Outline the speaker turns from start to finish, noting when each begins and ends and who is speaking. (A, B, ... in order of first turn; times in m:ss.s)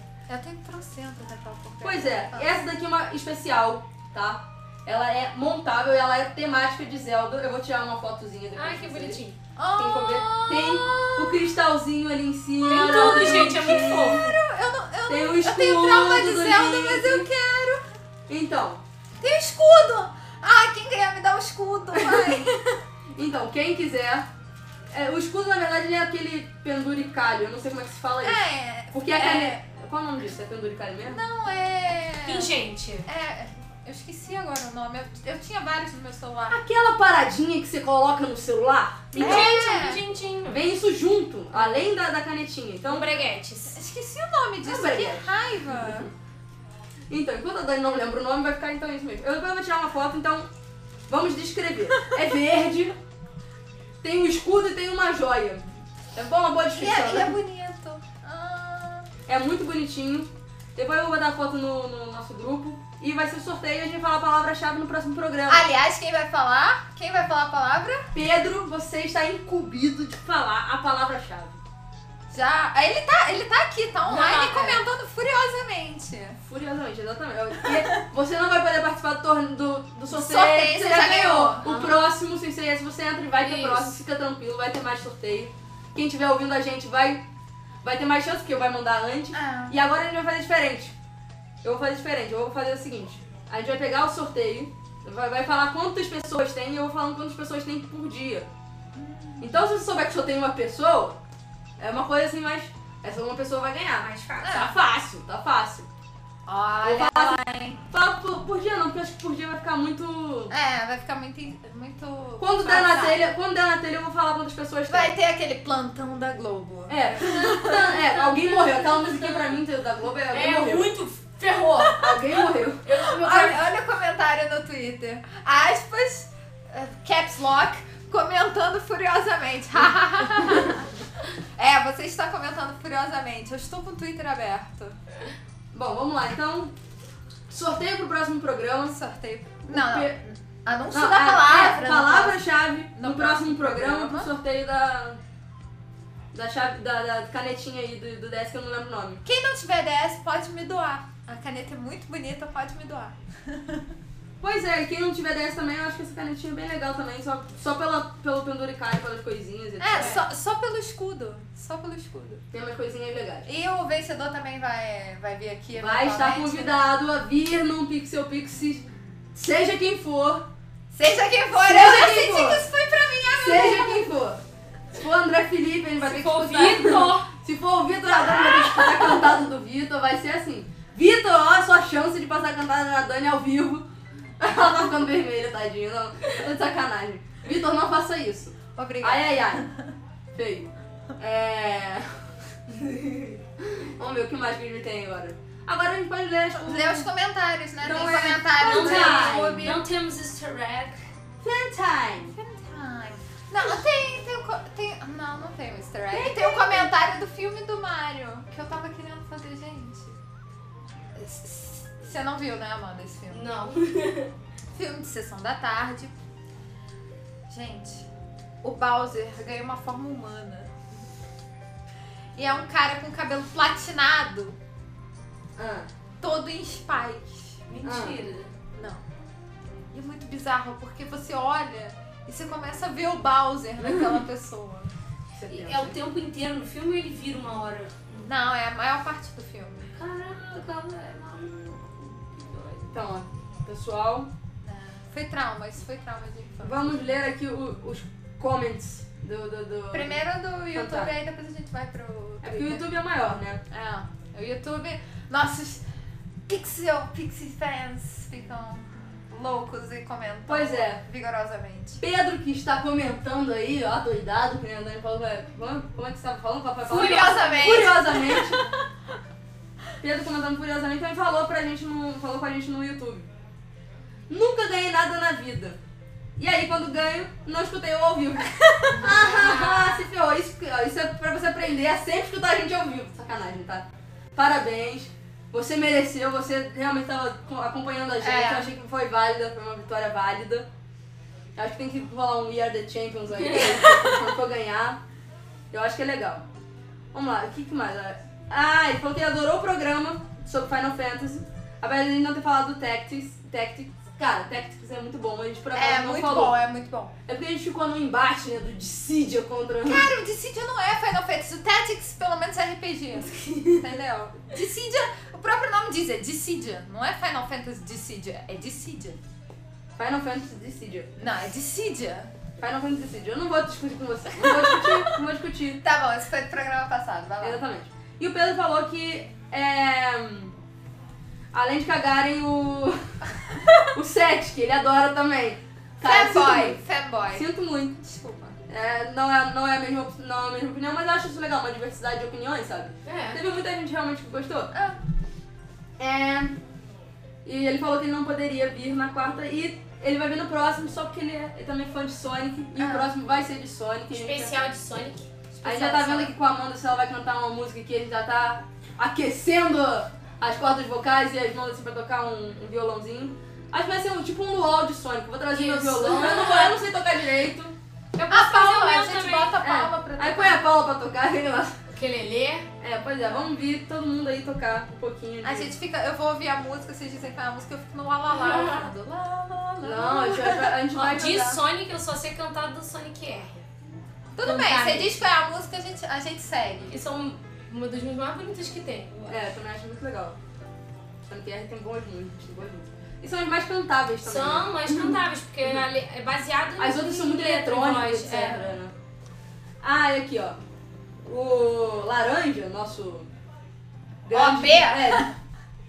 0:00.3-0:02.6 A
0:01.8-0:09.2 B
0:08.6-0:09.4 C
0:09.6-0:11.4 A
0:09.8-0:14.3 B
0:12.7-0:14.2 C
0:12.7-0:17.8 A
0:15.1-0:17.3 B
0:18.3-0:18.8 B
0:19.2-0:22.8 A
0:22.0-0:22.5 B
0:23.2-0:24.3 B
0:24.9-0:31.2 B
0:28.2-0:29.6 A
0:31.0-0:32.5 A
0:32.2-0:33.1 C
0:33.1-0:36.6 A
0:36.5-0:39.6 B
0:39.2-0:40.6 C
0:39.2-0:40.0 A
0:40.5-0:43.1 B
0:42.9-0:43.8 C
0:43.7-0:46.1 A
0:44.6-0:46.1 B
0:47.1-0:50.5 B
0:51.1-0:53.0 B
0:54.0-0:57.4 B
0:56.8-0:59.1 A
0:59.3-1:05.7 B
1:05.5-1:08.1 A
1:08.1-1:11.6 B
1:12.3-1:16.4 A
1:14.1-1:14.8 C
1:16.4-1:27.2 B
1:20.1-1:21.6 A
1:21.6-1:22.0 C
1:23.4-1:24.0 C
1:27.8-1:30.9 B
1:29.3-1:29.8 A
1:31.6-1:38.5 B
1:39.0-1:39.5 A
1:39.4-1:41.2 B
1:41.8-1:45.9 B
1:44.0-1:44.5 C
1:44.4-1:44.8 A
1:46.5-1:47.8 A
1:46.8-1:50.5 B
1:50.5-1:53.2 A
1:52.4-1:55.2 B
1:54.9-1:58.0 A
1:56.9-2:00.9 B
1:58.2-1:59.5 C
2:00.3-2:02.0 C
2:01.9-2:03.1 B
2:02.8-2:03.6 C
2:03.1-2:10.9 A
2:11.6-2:15.0 A
2:15.7-2:16.7 B
2:17.5-2:19.0 B
2:18.9-2:22.4 A
2:19.7-2:20.2 B
2:20.9-2:25.2 B
2:23.0-2:24.3 A
2:26.3-2:29.2 B
2:29.2-2:33.9 A
2:34.4-2:40.2 B
2:39.8-2:42.4 A
2:40.0-2:40.2 C
2:42.5-2:43.5 B
2:43.5-2:46.8 A
2:45.8-2:50.4 B
2:50.9-2:54.1 A
2:51.6-2:52.6 B
2:53.4-2:54.4 B
2:54.9-3:03.8 B
2:56.0-2:57.3 C
3:04.4-3:09.7 B
3:08.8-3:09.7 A
3:10.4-3:17.1 B
3:16.6-3:19.8 A
3:17.8-3:19.8 B
3:18.6-3:21.0 C
3:21.4-3:22.3 B
3:22.3-3:30.2 A
3:26.1-3:26.9 B
3:31.2-3:33.5 A
3:33.3-3:34.3 C
3:34.7-3:36.1 A
3:37.5-3:38.1 A
3:38.6-3:40.8 A
3:42.4-3:44.6 A
3:45.6-3:45.9 B
3:46.2-3:47.6 A
3:47.7-3:48.5 C
3:47.8-3:48.2 B
3:48.8-3:49.0 A
3:49.9-3:54.9 A
3:53.8-3:54.2 B
3:55.4-3:56.0 B
3:55.5-3:58.0 C
3:58.2-4:00.0 A
4:00.0-4:04.3 B
4:04.6-4:07.1 A
4:06.6-4:10.2 B
4:09.9-4:12.9 A
4:10.7-4:11.1 B
4:12.4-4:13.6 B
4:13.7-4:15.8 A
4:16.5-4:22.0 A
4:20.5-4:21.0 B
4:22.0-4:28.6 B
4:26.8-4:28.6 A
4:26.9-4:27.9 C
4:30.0-4:33.3 B
4:34.3-4:35.8 B
4:36.4-4:43.8 B
4:38.8-4:39.6 A
4:44.4-4:50.7 B
4:48.2-4:48.7 A
4:51.6-4:55.0 B
4:55.7-4:56.4 B
4:57.1-5:06.6 B
5:05.8-5:07.1 A
5:07.3-5:10.1 B
5:09.8-5:19.2 A
5:13.3-5:13.8 B
5:20.0-5:21.1 B
5:21.2-5:22.3 A
5:22.6-5:25.8 B
5:24.4-5:24.9 A
5:25.8-5:27.6 A
5:27.4-5:30.5 B
5:31.5-5:33.1 B
5:33.9-5:36.8 B
5:36.0-5:37.5 A
5:37.3-5:38.0 B
5:38.0-5:38.6 A
5:38.7-5:44.7 B
5:43.0-5:43.4 C
5:44.7-5:45.0 A
5:46.0-5:46.6 B
5:47.4-5:54.6 B
5:52.8-5:53.1 A
5:54.1-5:55.3 C
5:55.5-5:56.3 A
5:55.6-6:07.7 B
6:05.5-6:06.8 C
6:08.1-6:09.6 C
6:08.3-6:10.6 A
6:09.6-6:11.8 B
6:11.9-6:12.7 C
6:12.8-6:15.8 B
6:15.4-6:20.8 A
6:18.3-6:18.9 C
6:19.8-6:21.6 B
6:20.9-6:23.6 C
6:24.4-6:27.0 A
6:24.4-6:25.3 C
6:26.9-6:29.4 C
6:29.3-6:30.4 B
6:31.3-6:35.8 B
6:34.2-6:38.7 C
6:36.8-6:38.9 B
6:39.8-6:40.6 B
6:41.2-6:43.3 B
6:44.2-6:45.3 B
6:44.3-6:45.3 A